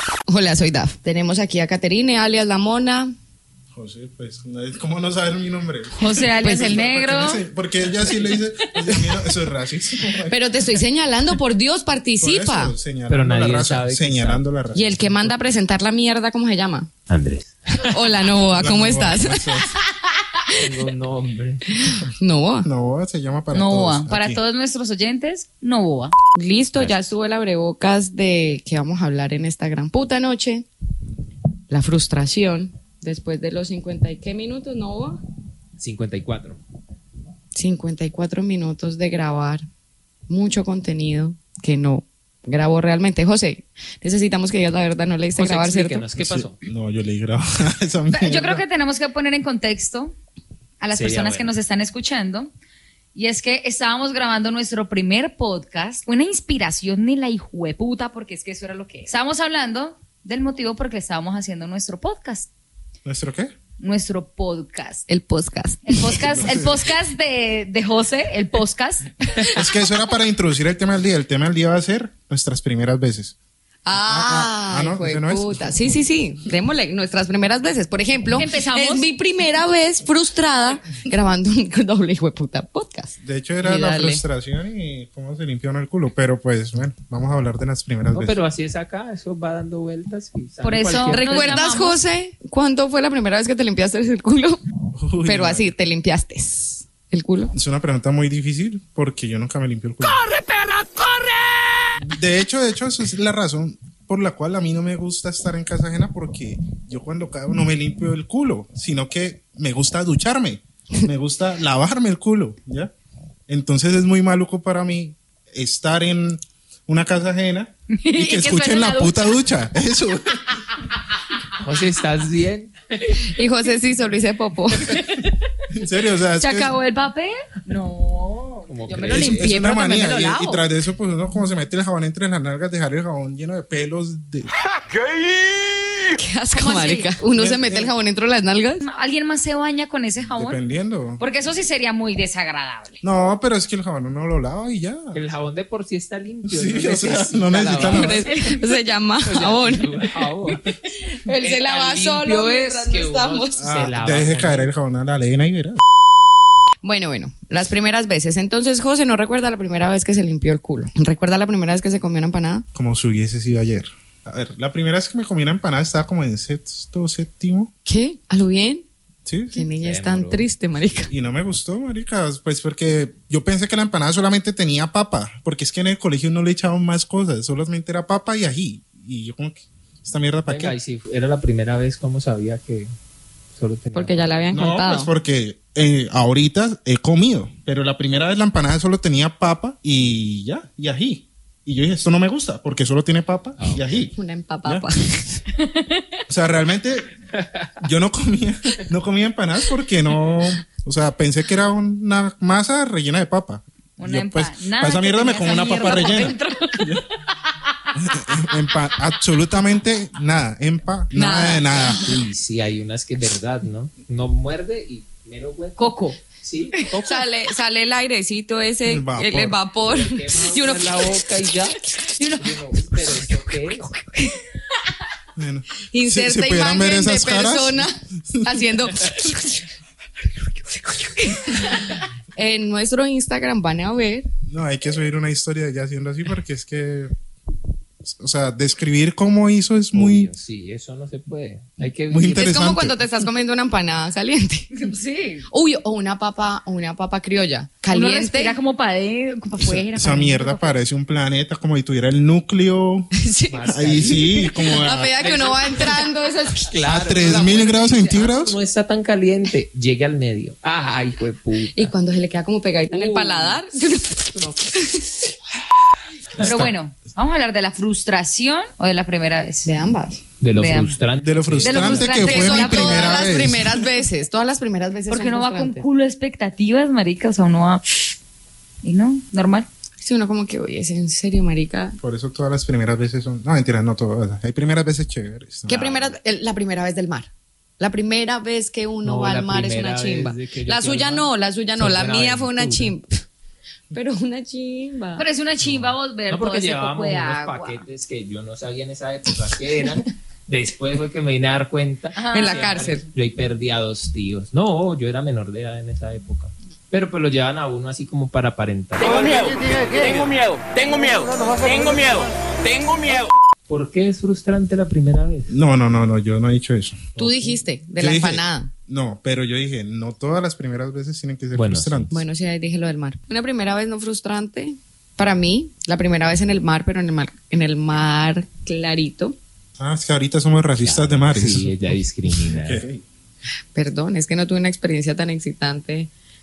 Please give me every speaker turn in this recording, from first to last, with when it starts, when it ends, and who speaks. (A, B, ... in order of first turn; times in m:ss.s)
0:00.3-0:03.1 A
0:03.7-0:10.4 B
0:06.0-0:07.4 C
0:06.4-0:06.8 A
0:10.3-0:12.7 A
0:12.2-0:15.3 B
0:13.1-0:14.4 D
0:14.7-0:16.9 A
0:17.1-0:18.0 D
0:17.8-0:19.7 A
0:18.6-0:19.7 B
0:20.6-0:21.6 D
0:21.7-0:22.7 A
0:22.6-0:24.4 B
0:23.5-0:26.2 C
0:26.4-0:30.7 A
0:26.8-0:27.1 D
0:31.7-0:35.2 A
0:35.8-0:36.6 D
0:37.6-0:39.6 A
0:40.3-0:46.1 A
0:45.3-0:46.6 D
0:46.2-0:48.6 B
0:48.1-0:50.2 C
0:50.8-0:52.5 C
0:50.9-0:51.6 D
0:53.1-1:02.5 C
1:03.0-1:03.5 B
1:03.8-1:05.1 C
1:05.1-1:06.4 A
1:05.9-1:09.2 C
1:06.3-1:06.8 B
1:09.6-1:13.4 B
1:13.8-1:24.2 A
1:13.9-1:16.0 B
1:18.4-1:19.1 C
1:23.2-1:28.4 B
1:28.1-1:31.7 D
1:30.6-1:32.0 C
1:31.0-1:34.6 A
1:35.0-1:35.7 B
1:35.2-1:37.5 A
1:37.5-1:40.2 B
1:40.0-1:42.0 E
1:42.0-1:52.9 B
1:53.5-2:00.6 B
1:57.9-1:59.4 C
2:01.5-2:03.4 D
2:03.2-2:05.0 A
2:04.8-2:05.4 C
2:05.7-2:06.8 B
2:06.4-2:10.6 C
2:08.7-2:09.4 D
2:09.1-2:14.5 B
2:14.6-2:16.2 E
2:16.2-2:18.8 A
2:16.5-2:17.1 C
2:17.3-2:18.0 B
2:18.8-2:20.6 C
2:20.3-2:21.2 B
2:21.2-2:23.0 C
2:23.0-2:25.2 B
2:25.1-2:28.2 D
2:26.5-2:28.3 B
2:27.8-2:30.3 A
2:28.3-2:28.7 C
2:29.2-2:30.7 D
2:31.1-2:33.6 A
2:31.4-2:34.7 D
2:33.6-2:35.8 B
2:36.8-2:42.7 A
2:42.8-2:47.7 B
2:47.8-2:48.9 A
2:49.3-2:49.7 B
2:49.5-2:51.1 A
2:49.7-2:50.5 D
2:51.1-3:00.8 B
3:00.5-3:02.9 D
3:03.5-3:04.6 D
3:03.9-3:05.1 A
3:04.5-3:14.1 B
3:13.6-3:14.0 D
3:14.1-3:15.4 A
3:15.5-3:16.2 C
3:16.3-3:17.1 B
3:17.4-3:17.7 D
3:17.8-3:27.0 B
3:24.0-3:27.0 C
3:28.0-3:32.1 B
3:31.2-3:31.4 C
3:31.2-3:32.0 A
3:32.0-3:37.2 D
3:35.8-3:36.2 C
3:37.0-3:41.3 A
3:38.8-3:39.6 B
3:39.8-3:41.8 D
3:42.2-3:42.5 C
3:42.4-3:43.9 D
3:44.0-3:44.2 A
3:45.4-3:48.6 B
3:45.9-3:49.7 A
3:50.4-3:54.3 A
3:54.5-3:57.1 B
3:58.0-4:00.3 B
3:59.9-4:02.5 D
4:02.1-4:03.1 B
4:02.3-4:04.8 A
4:04.7-4:05.5 C
4:05.5-4:08.6 A
4:07.9-4:10.8 C
4:09.6-4:13.1 B
4:13.2-4:16.8 A
4:13.5-4:16.1 D
4:13.6-4:15.2 B
4:16.7-4:21.9 D
4:16.9-4:18.6 B
4:17.3-4:17.6 A
4:21.8-4:25.3 A
4:22.9-4:23.6 D
4:26.4-4:26.7 B
4:26.4-4:29.7 C
4:29.6-4:30.2 A
4:30.4-4:32.4 D
4:30.6-4:31.0 C
4:31.2-4:33.8 B
4:31.6-4:33.4 C
4:32.0-4:35.9 A
4:35.1-4:38.1 C
4:38.8-4:39.7 C
4:40.0-4:42.0 A
4:42.0-4:46.0 B
4:45.7-4:53.2 A
4:45.8-4:46.1 D
4:49.0-4:52.9 D
4:53.9-4:55.3 A
4:55.2-4:57.8 C
4:55.6-5:10.0 D
5:02.1-5:02.7 C
5:02.3-5:03.0 A
5:09.0-5:13.3 E
5:13.7-5:15.5 D
5:15.5-5:17.1 B
5:17.2-5:17.6 D
5:17.2-5:18.7 A
5:18.0-5:22.2 B
5:21.5-5:22.1 D
5:22.1-5:29.4 A
5:29.8-5:31.7 B
5:30.8-5:32.8 D
5:32.5-5:33.0 B
5:33.7-5:36.1 A